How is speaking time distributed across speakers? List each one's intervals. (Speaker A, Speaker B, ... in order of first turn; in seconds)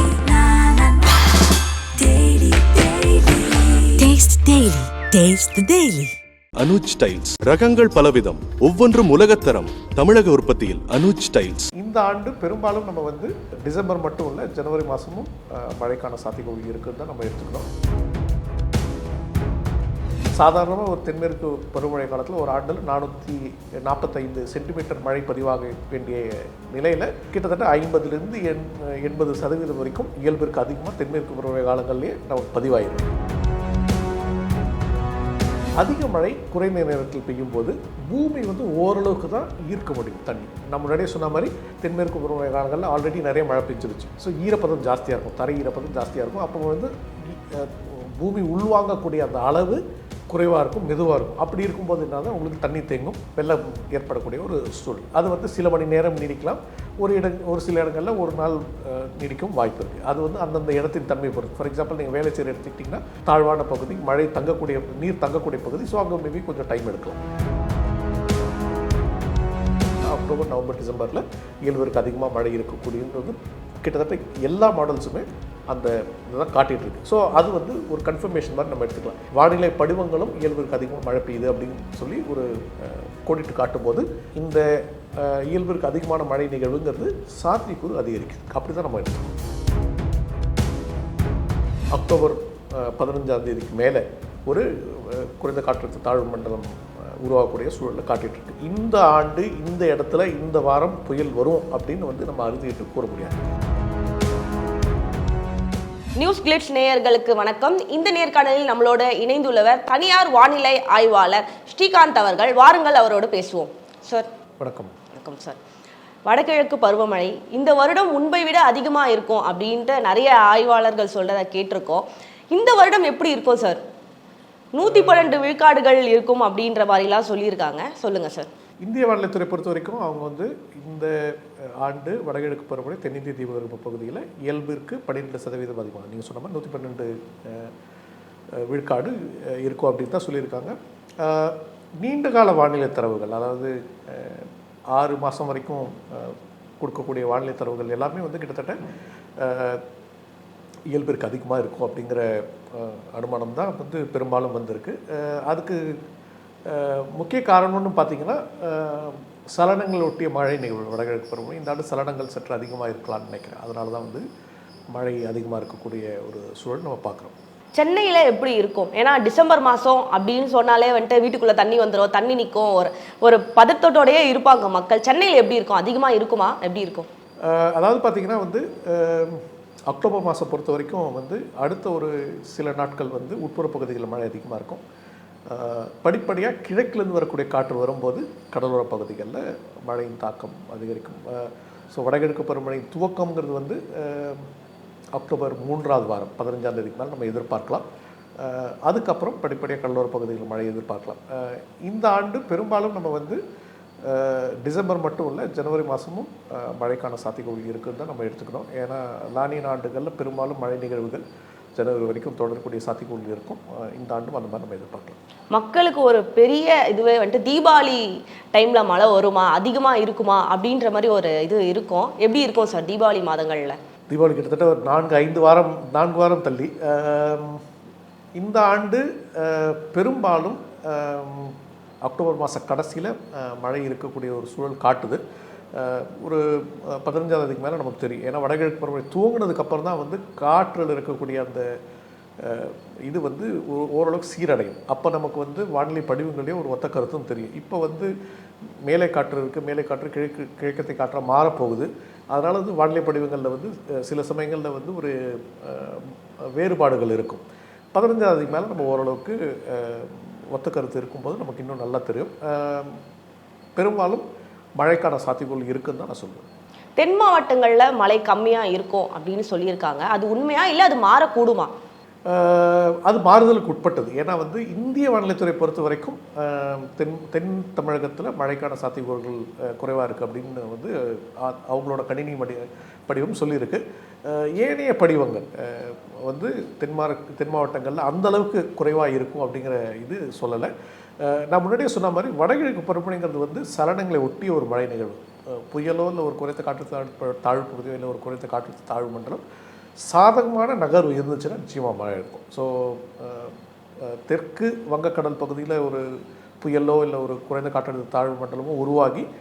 Speaker A: 0.1-0.4, 2.7-3.1, 106.2-114.3, 115.1-115.6, 116.3-123.8, 124.7-128.5, 167.8-177.1, 215.5-223.8, 267.0-271.7
Speaker B: 2.0-2.7, 4.0-6.1
Speaker C: 6.6-11.7
Speaker D: 11.8-17.7, 20.3-33.1, 35.8-67.2, 70.0-89.3, 91.9-103.4, 114.6-114.9, 124.8-125.3, 128.8-137.7, 138.6-148.8, 149.4-149.8, 150.9-155.8, 156.7-164.2, 164.9-167.3, 177.4-184.8, 185.5-194.5, 195.1-197.8, 198.4-203.4, 204.0-211.2, 211.8-215.2, 224.1-227.6, 228.4-235.2, 235.7-241.7, 242.4-248.1, 248.8-263.0, 263.8-264.2, 264.8-266.4, 272.3-299.4, 300.1-306.0, 306.6-309.3